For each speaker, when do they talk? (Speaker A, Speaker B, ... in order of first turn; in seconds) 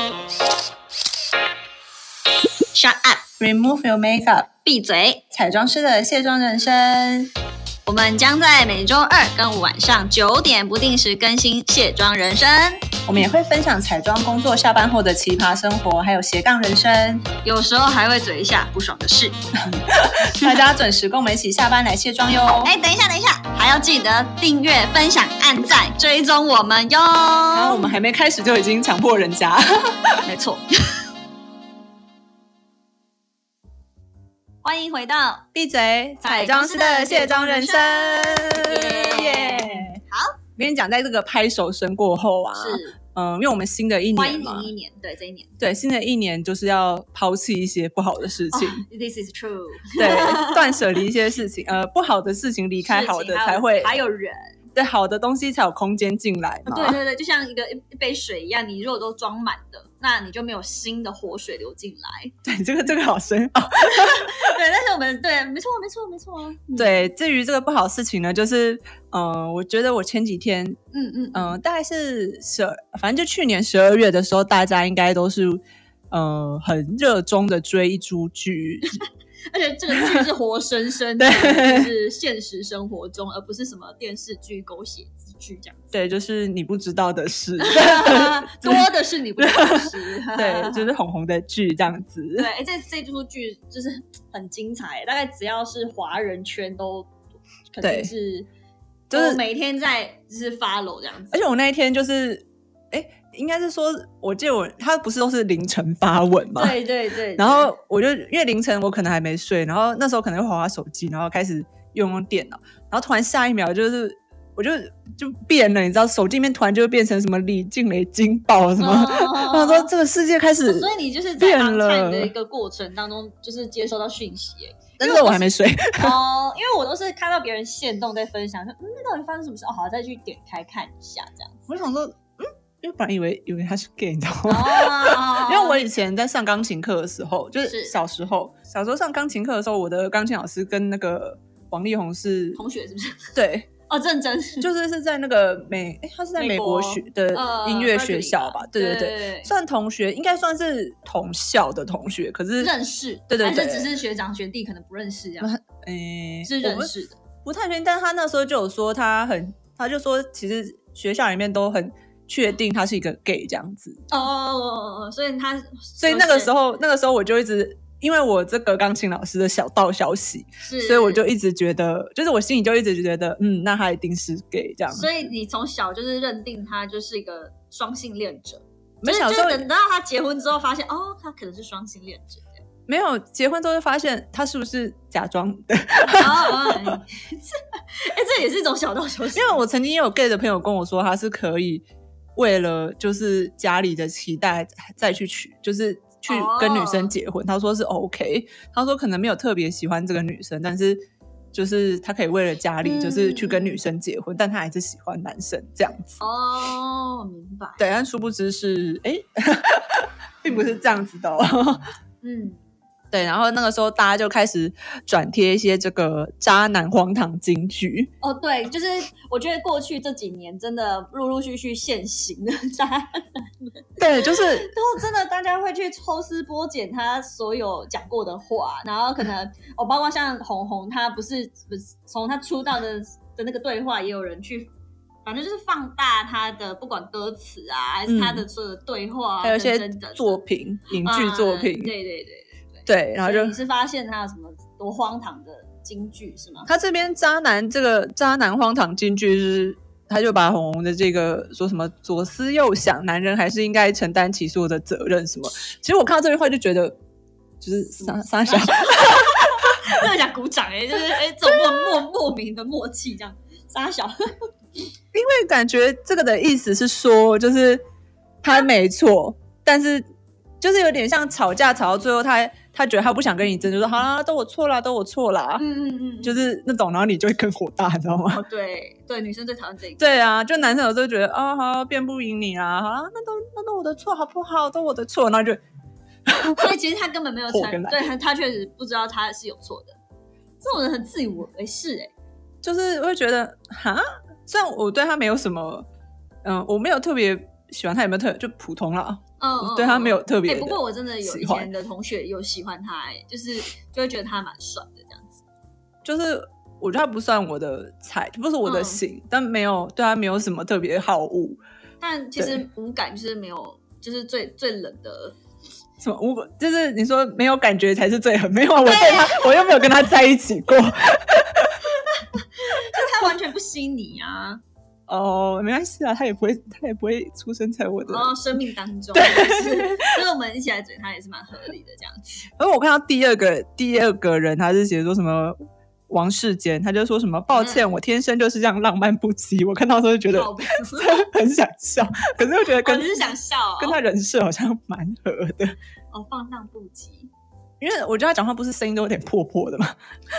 Speaker A: 2.7-3.2, 4.6-5.3, 7.8-12.9, 17.4-19.3, 22.6-27.9, 30.2-30.6, 34.6-35.5, 36.2-40.4, 42.5-43.0, 44.1-45.6, 48.5-50.8, 52.8-54.5, 56.7-62.4, 63.8-67.1, 70.9-71.5, 79.0-85.8, 87.6-90.9, 92.4-97.1, 97.7-98.5, 99.1-101.4, 106.5-107.7, 118.8-119.9, 120.7-131.7, 134.4-135.9, 137.6-137.9, 142.5-143.3, 143.9-144.7, 146.4-149.5, 152.6-155.5, 156.4-157.2, 164.1-166.5, 170.6-171.2, 174.9-182.6, 186.0-189.6, 196.3-197.1, 202.8-203.8, 206.2-207.8, 212.2-212.6, 218.2-234.7, 235.2-240.4, 241.0-246.7, 258.0-264.2, 275.6-276.4, 278.3-280.0, 286.6-289.9, 290.6-292.1, 299.4-305.4, 308.6-309.0, 312.0-315.4, 318.7-319.8, 321.9-324.6, 328.1-332.5, 337.5-337.8, 340.3-341.2, 342.8-344.0, 346.1-347.3
Speaker B: 3.4-4.5, 5.3-7.3, 13.1-17.3, 19.7-22.8, 27.5-30.2, 35.5-40.0, 40.6-44.7, 45.6-48.8, 50.0-53.9, 54.7-57.0, 62.4-64.5, 66.8-70.8, 71.3-78.9, 79.9-80.3, 81.2-81.9, 85.9-92.5, 97.8-98.1, 99.1-99.4, 101.3-106.8, 107.3-122.3, 125.0-126.2, 131.7-142.6, 143.3-143.7, 144.6-152.7, 153.3-153.9, 155.4-156.9, 157.4-164.0, 166.0-175.2, 179.0-179.7, 182.9-187.0, 189.3-206.2, 207.8-211.8, 213.1-218.1, 224.0-224.7, 238.1-238.4, 239.4-241.9, 242.8-243.6, 246.7-257.0, 257.6-259.8, 261.4-261.9, 265.1-267.8, 268.4-270.1, 270.6-275.6, 276.2-278.4, 280.0-285.6, 286.3-286.7, 287.5-288.1, 292.6-295.9, 296.4-301.7, 306.0-311.6, 312.4-312.6, 316.0-321.8, 325.1-328.3, 329.1-330.1, 332.6-335.6, 336.1-345.8, 347.8-349.9